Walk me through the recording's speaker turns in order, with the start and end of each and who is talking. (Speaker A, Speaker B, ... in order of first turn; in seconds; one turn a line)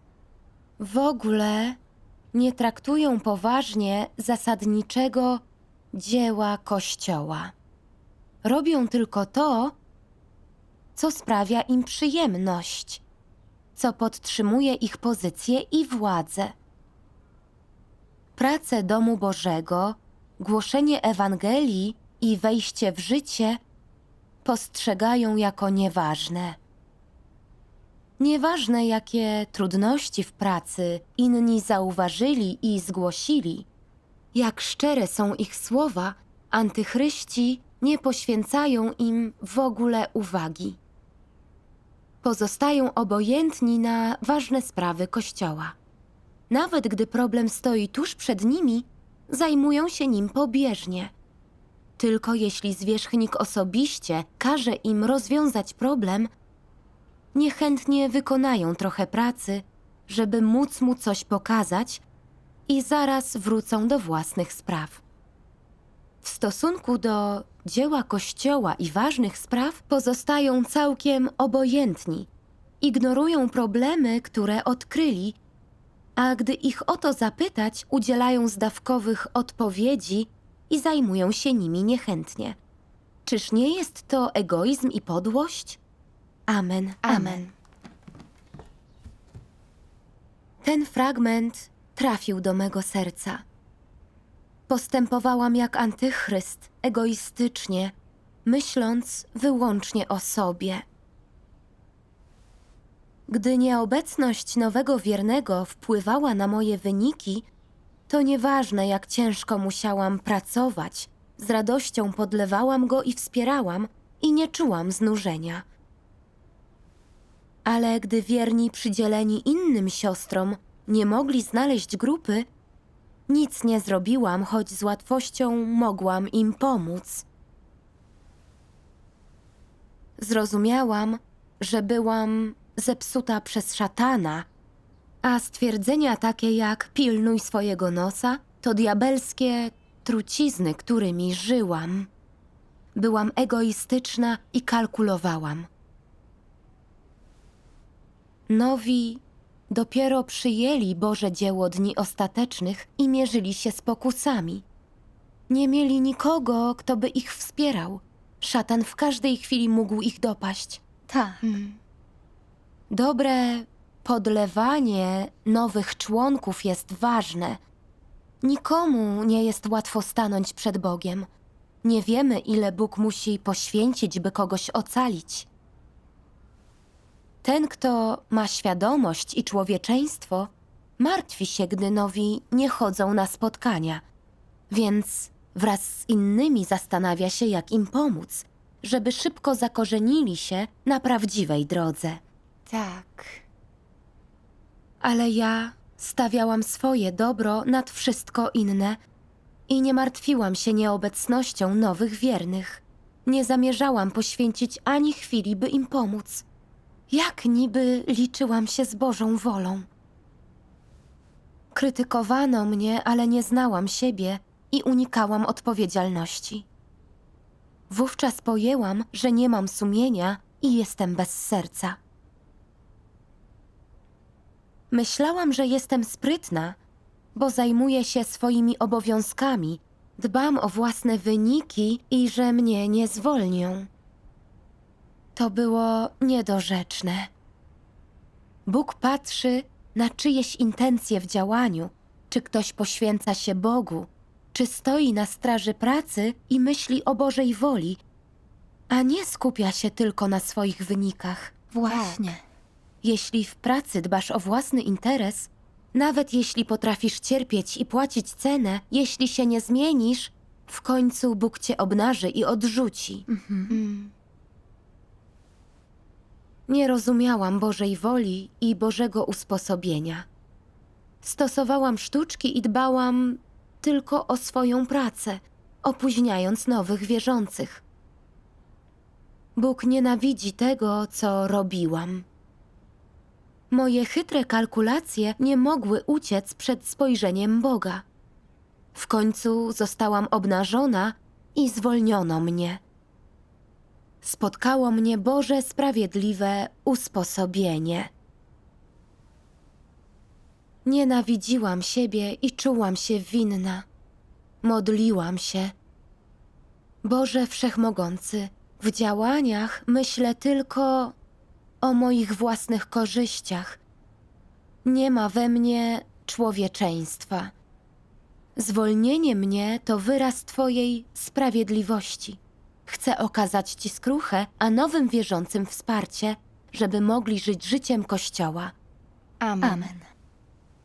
Speaker A: 0.8-1.8
Speaker A: 2.3-7.5
Speaker A: 8.4-9.8
Speaker A: 11.0-13.0
Speaker A: 13.8-16.5
Speaker A: 18.4-23.6
Speaker A: 24.4-26.6
Speaker A: 28.2-33.7
Speaker A: 34.3-40.8
Speaker A: 42.2-45.8
Speaker A: 46.5-51.1
Speaker A: 52.0-56.3
Speaker A: 57.3-62.0
Speaker A: 62.7-65.0
Speaker A: 66.2-72.3
Speaker A: 72.8-75.4
Speaker A: 76.2-82.6
Speaker A: 83.3-85.8
Speaker A: 86.5-87.4
Speaker B: 87.0-87.5
Speaker A: 90.6-93.4
Speaker A: 94.7-97.9
Speaker A: 98.5-100.8
Speaker A: 103.3-107.5
Speaker A: 108.1-115.7
Speaker A: 117.7-122.5
Speaker A: 123.3-127.3
Speaker A: 130.2-134.5
Speaker A: 135.2-142.1
Speaker A: 142.9-145.7
Speaker A: 148.5-154.7
Speaker A: 155.5-160.8
Speaker C: 161.1-161.4
Speaker B: 161.4-161.8
Speaker A: 162.9-167.6
Speaker A: 168.4-171.3
Speaker A: 171.8-175.5
Speaker A: 177.4-184.0
Speaker A: 184.7-192.2
Speaker B: 192.7-193.4
Speaker A: 195.0-199.0
Speaker A: 199.7-206.4
Speaker A: 207.1-209.9
Speaker A: 211.7-216.7
Speaker A: 217.9-222.0
Speaker A: 224.9-226.8
Speaker A: 227.3-233.9
Speaker A: 235.4-237.3
Speaker A: 238.7-248.0
Speaker A: 248.9-251.6
Speaker C: 251.7-252.4
Speaker B: 251.8-252.3
Speaker A: 253.0-263.3
Speaker C: 263.3-263.8
Speaker B: 263.7-264.1
Speaker A: 266.7-270.3
Speaker A: 271.2-277.8
Speaker A: 279.6-282.3
Speaker A: 283.7-288.1
Speaker A: 288.9-292.8
Speaker A: 294.2-298.1
Speaker A: 300.9-303.9
Speaker A: 304.6-305.7
Speaker A: 307.0-311.1
Speaker A: 311.8-313.8
Speaker A: 314.9-317.5
Speaker A: 318.6-328.7
Speaker B: 329.4-329.9
Speaker C: 329.6-330.0